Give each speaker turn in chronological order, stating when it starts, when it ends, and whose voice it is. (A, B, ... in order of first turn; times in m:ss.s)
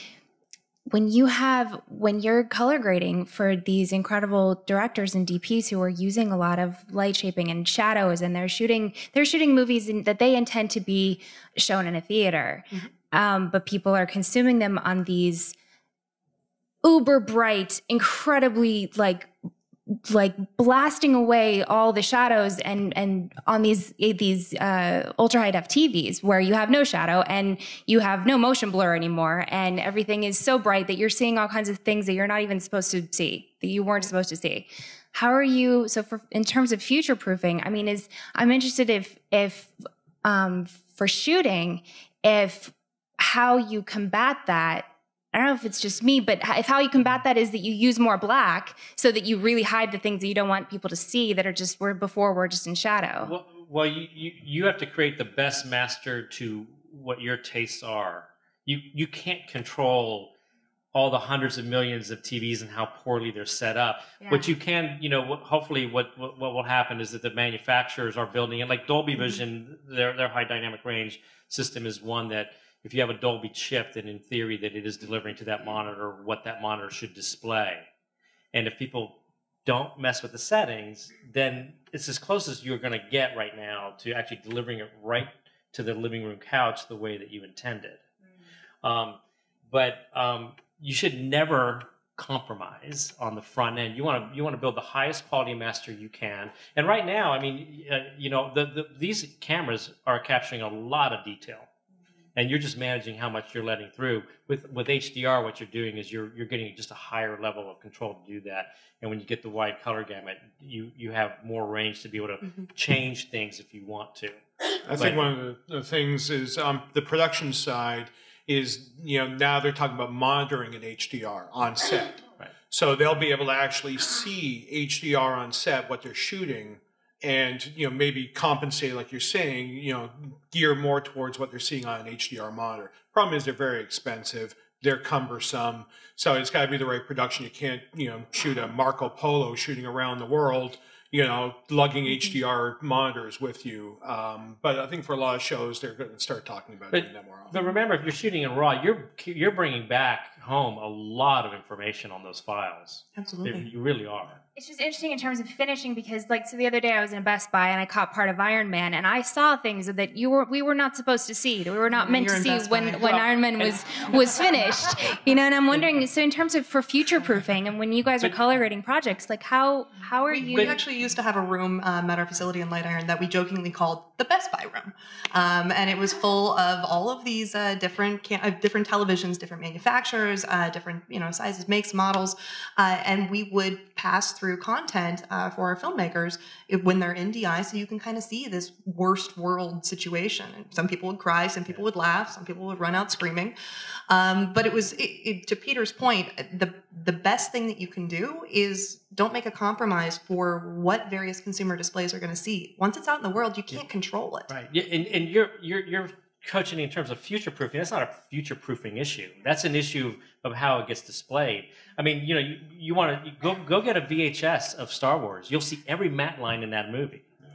0:00.9-0:15.5 A
0:16.8-0:19.3 A
0:20.1-0:39.7 A
0:40.2-0:53.3 A
0:53.2-1:00.3 B
1:00.9-1:17.8 B
1:04.2-1:04.5 A
1:18.5-1:28.0 B
1:28.8-1:41.7 B
1:42.4-1:54.4 B
1:54.8-2:27.6 C
1:55.0-1:55.3 B
2:26.9-2:34.4 B
2:33.2-2:33.7 D
2:34.6-2:50.8 A
2:41.9-2:43.3 D
2:50.3-3:13.6 D
3:14.1-3:24.5 D
3:24.5-3:37.2 B